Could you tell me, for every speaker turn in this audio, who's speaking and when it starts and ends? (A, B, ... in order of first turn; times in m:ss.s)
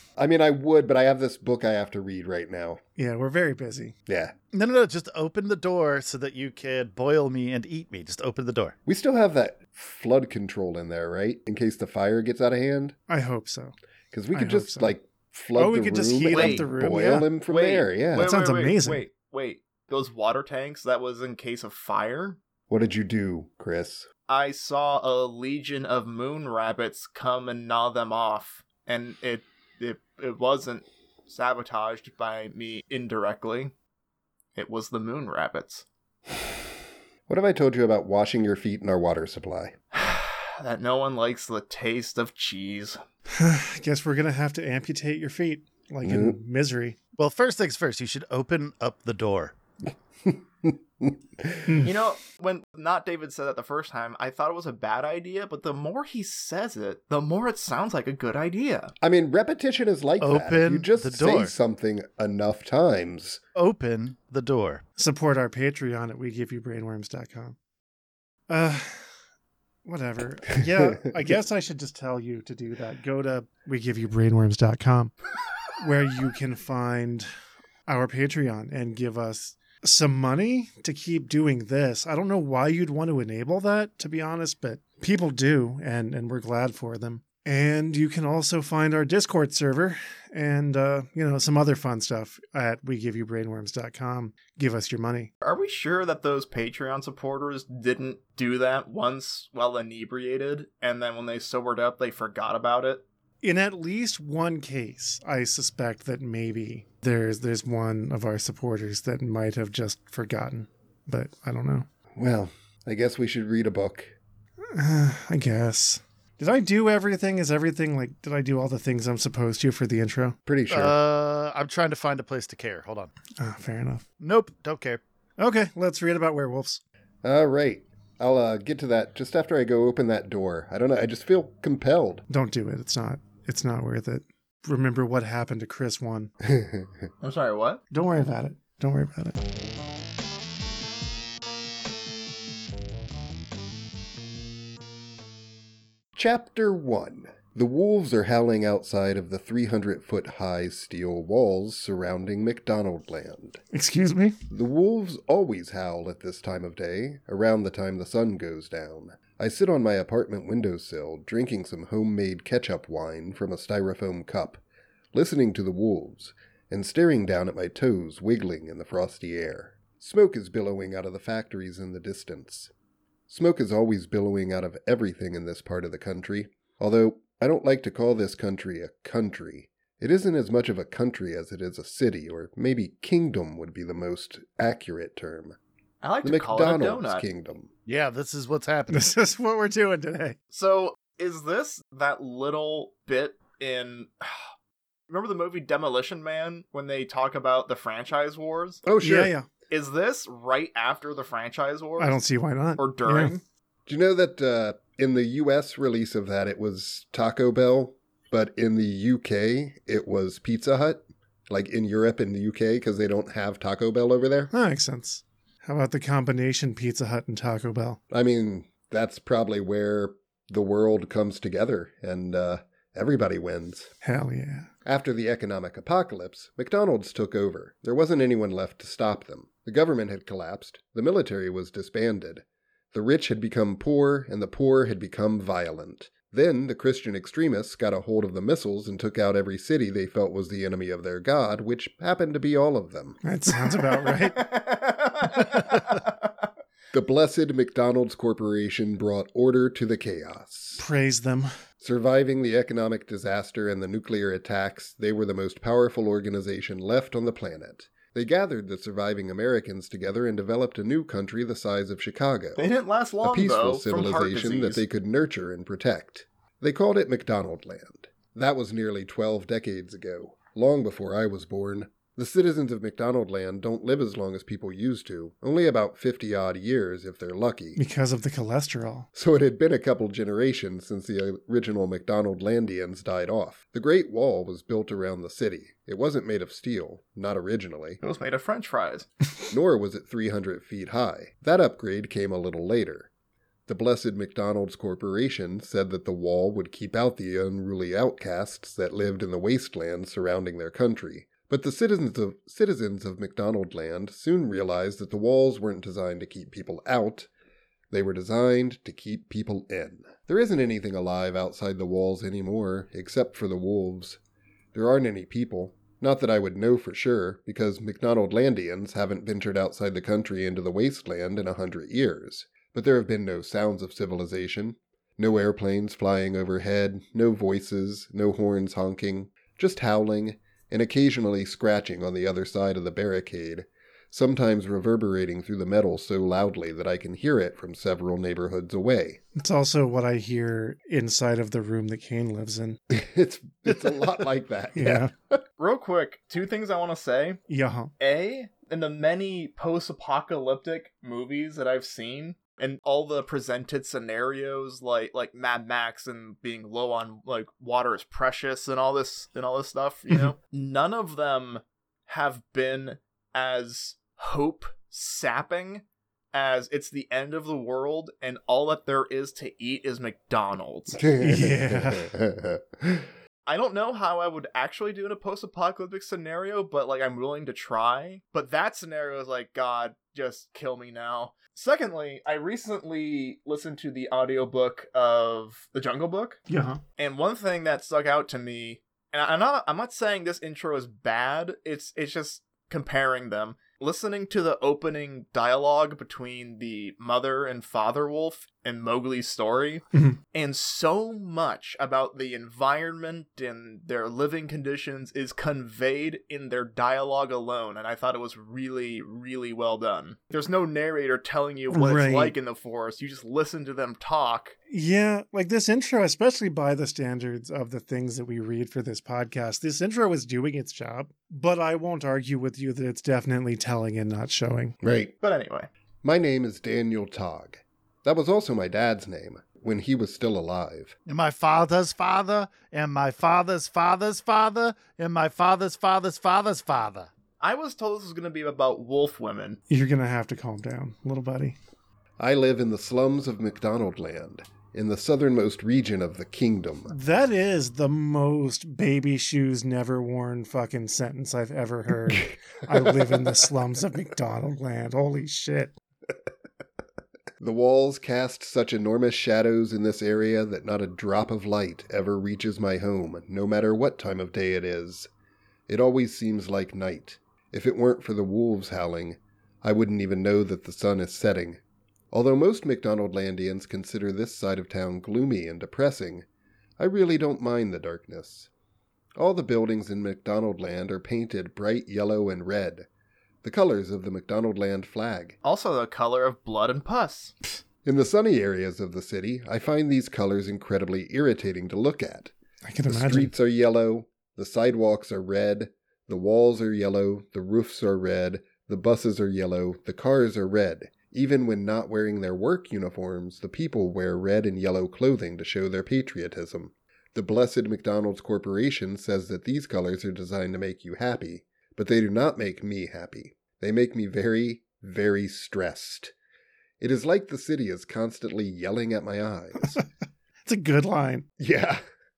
0:00.2-0:02.8 A
0:03.0-0:03.9 B
0:04.1-0:04.3 A
0:04.5-0:08.7 C
0:08.8-0:12.9 A
0:13.1-0:13.7 B
0:14.1-0:18.3 A
0:14.3-0:14.9 B
0:15.6-0:17.3 B
0:16.3-0:16.7 D
0:17.5-0:22.4 D
0:18.2-0:19.0 B
0:22.7-0:24.1 A
0:24.3-0:33.7 D
0:34.5-0:35.8 D
0:37.3-0:39.7 A
0:39.9-0:43.0 D
0:43.3-0:47.0 B
0:46.0-0:46.4 A
0:47.2-0:49.5 C
0:50.2-0:51.8 A
0:51.7-0:51.9 B
0:51.8-0:58.9 D
0:59.0-1:03.4 A
1:00.2-1:01.5 C
1:03.5-1:04.8 C
1:05.0-1:07.6 B
1:08.5-1:09.2 B
1:09.8-1:15.1 B
1:10.6-1:11.0 A
1:15.8-1:17.3 B
1:17.9-1:35.3 B
1:35.4-1:43.0 D
1:43.4-1:51.9 B
1:52.2-1:54.1 A
1:54.7-2:00.4 B
2:00.4-2:01.0 A
2:00.7-2:03.1 C
2:03.4-2:04.0 B
2:04.2-2:05.0 C
2:05.4-2:06.8 B
2:07.2-2:12.2 A
2:12.3-2:16.3 B
2:16.4-2:17.1 A
2:17.2-2:17.8 D
2:17.9-2:19.4 B
2:26.1-2:33.6 A
2:33.7-2:34.4 B
2:34.5-2:44.6 A
2:45.1-2:52.7 A
2:53.3-3:05.6 A
3:06.0-3:07.2 D
3:06.2-3:07.7 A
3:07.8-3:09.1 C
3:08.9-3:10.4 B
3:10.5-3:14.5 D
3:15.1-3:18.8 D
3:18.8-3:19.3 A
3:19.0-3:19.5 B
3:19.7-3:22.2 D
3:22.0-3:23.4 B
3:22.8-3:23.4 D
3:23.9-3:34.5 A
3:34.5-3:38.0 B
3:38.1-3:43.9 A
3:44.0-3:44.7 B
3:44.8-4:03.2 A
4:03.2-4:04.4 B
4:03.9-4:06.4 D
4:06.9-4:10.8 A
4:10.8-4:11.5 B
4:11.8-4:22.6 A
4:22.6-4:24.8 D
4:23.2-4:37.8 A
4:37.8-4:39.0 B
4:39.1-4:48.0 A
4:48.0-4:49.1 D
4:49.5-4:53.1 A
4:53.7-5:07.3 A
5:07.9-5:14.2 A
5:14.7-5:39.2 A
5:39.3-5:42.8 B
5:42.9-5:45.4 A
5:44.7-5:45.1 B
5:45.6-5:47.4 D
5:47.5-5:47.9 B
5:48.0-6:11.0 D
6:10.9-6:13.1 A
6:11.2-6:12.1 B
6:13.5-6:26.4 D
6:26.5-6:26.8 B
6:27.0-6:54.6 D
6:51.7-6:52.3 B
6:54.7-7:04.7 B
7:04.8-7:05.1 A
7:05.2-7:05.7 D
7:06.0-7:10.9 A
7:11.0-7:17.1 C
7:17.4-7:19.6 D
7:19.7-7:21.6 B
7:22.2-7:26.9 A
7:26.9-7:35.7 B
7:37.4-7:45.1 A
7:45.7-7:56.2 A
7:56.8-7:58.5 A
7:59.2-8:02.9 A
8:03.4-8:05.4 A
8:05.4-8:07.3 D
8:07.8-8:12.3 A
8:12.6-8:13.3 B
8:12.9-8:36.1 A
8:36.8-8:39.8 A
8:40.4-8:41.2 B
8:41.4-8:41.8 A